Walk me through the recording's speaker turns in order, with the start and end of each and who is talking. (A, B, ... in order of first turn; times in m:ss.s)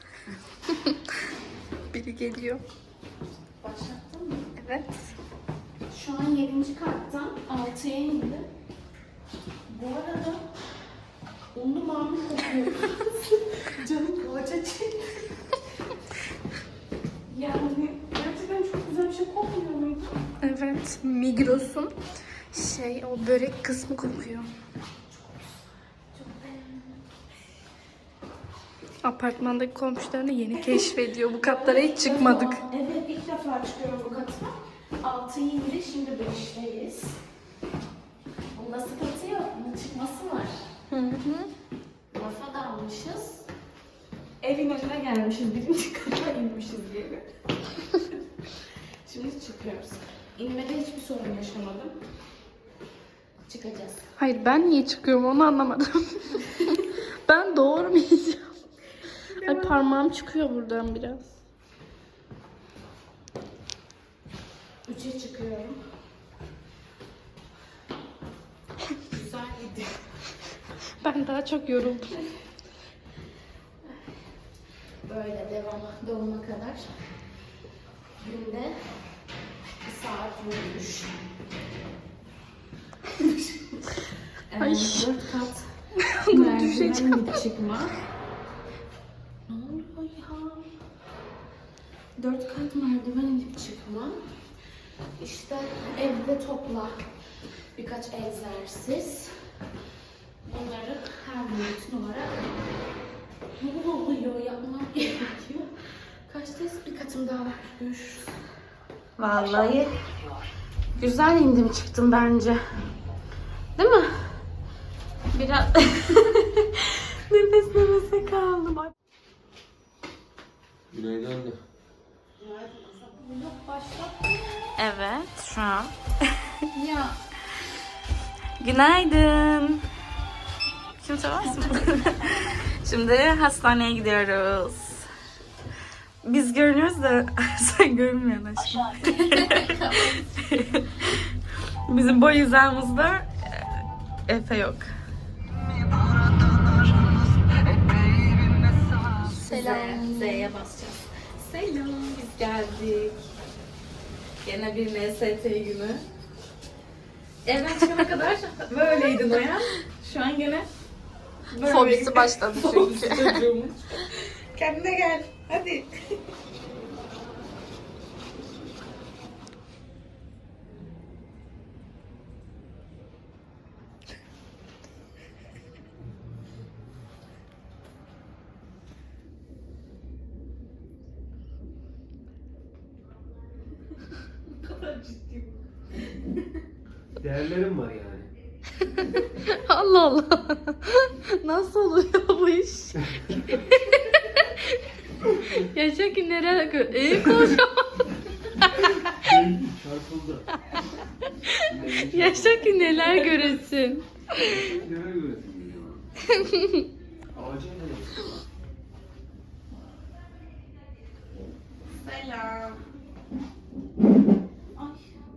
0:00.7-0:01.0 A
0:01.9-0:02.6 A
0:03.6-0:04.5 B
0:04.6-0:05.0 A
0:05.9-0:08.4 B
0:09.7-0:10.4 B
0:11.5-0:15.3 B
0:17.3-0:20.2 B
0:20.4-0:21.9 A
0:22.5-0:24.5 A
0:25.1-0:25.6 B
0:26.1-0:27.0 B
0:29.0-0:32.6 A
0:30.6-0:37.2 B
0:38.5-0:40.5 B
0:40.9-0:41.5 A
0:42.1-0:43.5 B
0:44.4-0:47.2 B
0:49.0-0:51.9 B
0:53.5-0:54.0 B
0:54.2-0:58.6 A
0:56.4-0:56.8 B
0:59.3-0:59.8 B
0:59.4-1:01.3 A
1:04.8-1:05.8 B
1:09.0-1:10.1 B
1:11.0-1:12.1 A
1:15.0-1:16.9 B
1:18.2-1:19.0 B
1:19.8-1:21.2 B
1:23.1-1:25.7 B
1:24.6-1:25.1 A
1:26.0-1:27.4 A
1:26.3-1:28.0 B
1:29.5-1:30.6 B
1:32.2-1:34.2 B
1:35.2-1:37.0 B
1:37.7-1:39.3 B
1:40.4-1:42.4 B
1:43.6-1:45.7 B
1:46.3-1:48.3 B
1:49.2-1:49.9 B
1:51.0-1:52.6 B
1:53.8-1:54.4 B
1:55.3-1:58.9 B
2:00.9-2:01.6 C
2:02.4-2:04.7 A
2:04.8-2:05.9 B
2:06.7-2:07.2 A
2:08.6-2:09.8 B
2:11.0-2:15.1 B
2:16.2-2:21.3 B
2:19.0-2:20.2 A
2:21.9-2:24.9 B
2:26.4-2:33.3 B
2:29.2-2:30.5 A
2:34.4-2:36.0 B
2:37.4-2:40.7 B
2:41.5-2:45.9 B
2:41.6-2:43.4 A
3:04.6-3:05.5 B
3:07.1-3:08.3 C
3:09.0-3:14.7 A
3:15.2-3:19.2 A
3:18.8-3:20.5 C
3:21.5-3:24.7 A
3:21.6-3:22.8 C
3:23.2-3:23.5 B
3:24.4-3:26.0 C
3:26.4-3:26.8 A
3:27.3-3:28.4 C
3:32.0-3:32.8 B
3:34.7-3:35.0 B